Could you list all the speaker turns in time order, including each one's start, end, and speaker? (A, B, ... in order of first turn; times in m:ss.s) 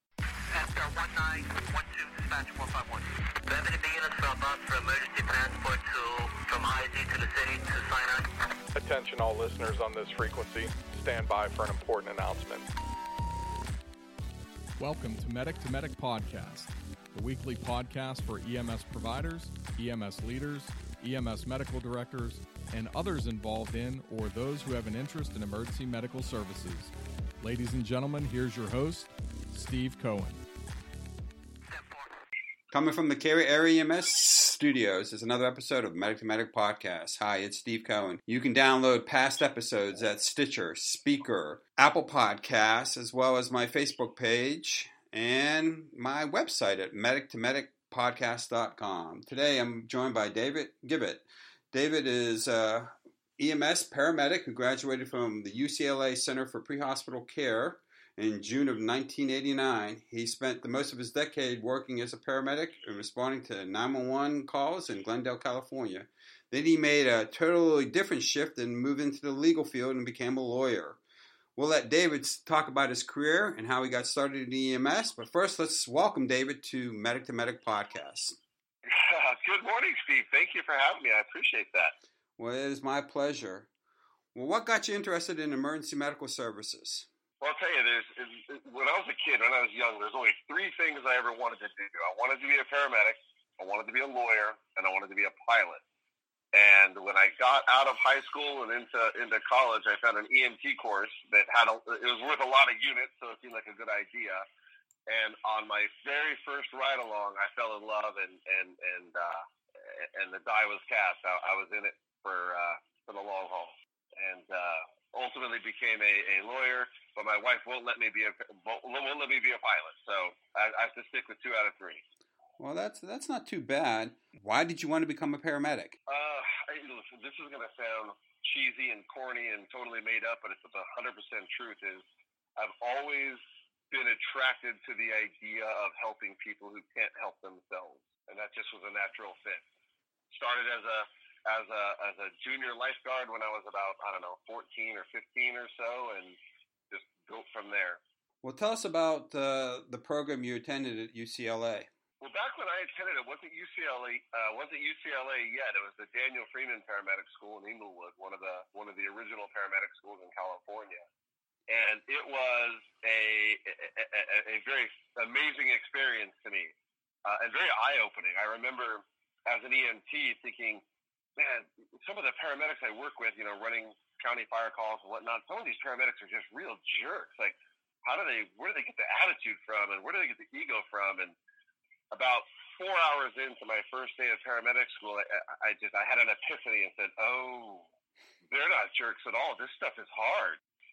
0:00.5-0:08.3 A
0:08.7-0:12.7 B
0:14.8-0:30.4 C
0:31.7-0:32.2 A
0:32.7-1:11.0 D
1:11.6-1:18.4 D
1:18.8-1:21.9 E
1:22.4-1:23.7 D
1:24.3-1:27.1 D
1:27.4-1:35.8 E
1:36.5-1:44.4 E
1:45.1-2:02.0 E
2:02.6-2:06.0 D
2:06.1-2:12.0 E
2:12.6-2:13.4 E
2:13.9-2:19.6 E
2:20.3-2:26.4 E
2:26.9-2:28.0 E
2:28.4-2:31.9 D
2:32.2-2:41.0 E
2:41.7-2:46.7 E
2:47.2-2:50.8 E
2:51.4-3:01.3 E
3:02.1-3:07.8 E
3:08.5-3:10.6 E